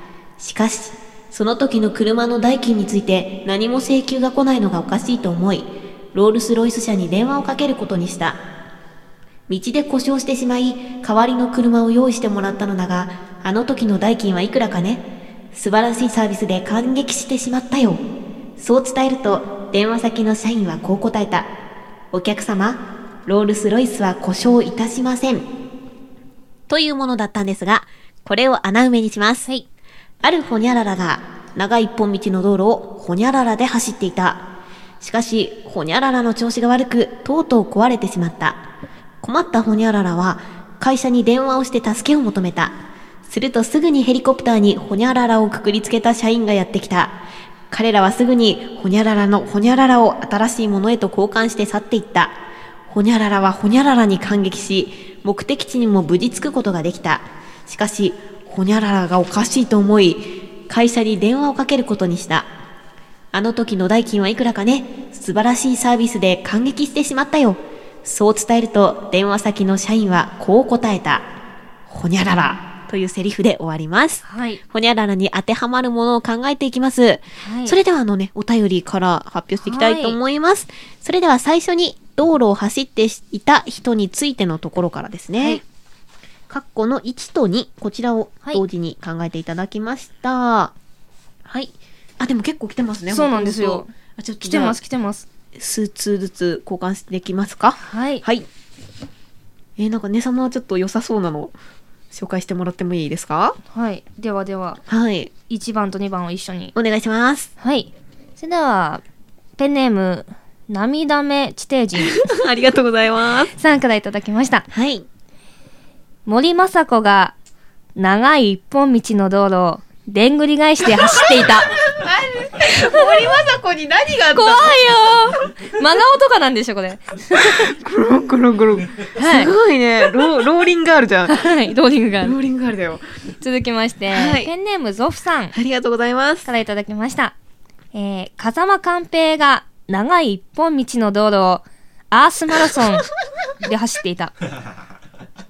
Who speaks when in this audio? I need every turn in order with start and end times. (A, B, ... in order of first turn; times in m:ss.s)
0:00.4-0:08.4 A
0:09.5-0:18.0 A
0:18.6-0:21.5 A
0:22.1-0:25.5 A
0:26.7-0:29.5 A
0:30.2-0:34.5 A
0:35.0-0:38.6 A
0:39.2-0:47.2 A
0:47.7-0:52.3 A
0:52.9-1:02.5 A
1:03.3-1:11.3 A
1:11.9-1:25.6 A
1:14.2-1:14.6 B
1:17.4-1:17.8 B
1:19.6-1:20.2 B
1:26.5-1:30.7 A
1:31.4-1:34.8 A
1:33.1-1:33.9 B
1:34.4-1:35.3 B
1:35.6-1:38.5 A
1:37.8-1:38.2 B
1:39.8-1:41.5 A
1:42.1-1:43.6 A
1:43.7-1:44.8 B
1:44.9-1:45.3 A
1:45.5-1:46.8 B
1:46.8-1:47.5 A
1:47.6-1:49.0 B
1:49.6-1:52.2 B
1:52.1-1:53.5 A
1:53.5-1:54.7 B
1:54.7-1:55.1 A
1:56.3-1:57.4 B
1:58.0-2:01.8 B
2:01.0-2:04.8 A
2:04.3-2:07.7 B
2:07.4-2:11.4 A
2:09.2-2:09.6 B
2:11.3-2:12.4 B
2:12.2-2:13.0 A
2:13.4-2:15.5 B
2:14.1-2:14.5 A
2:15.5-2:16.5 A
2:16.4-2:17.3 B
2:17.9-2:23.1 B
2:23.6-2:24.3 B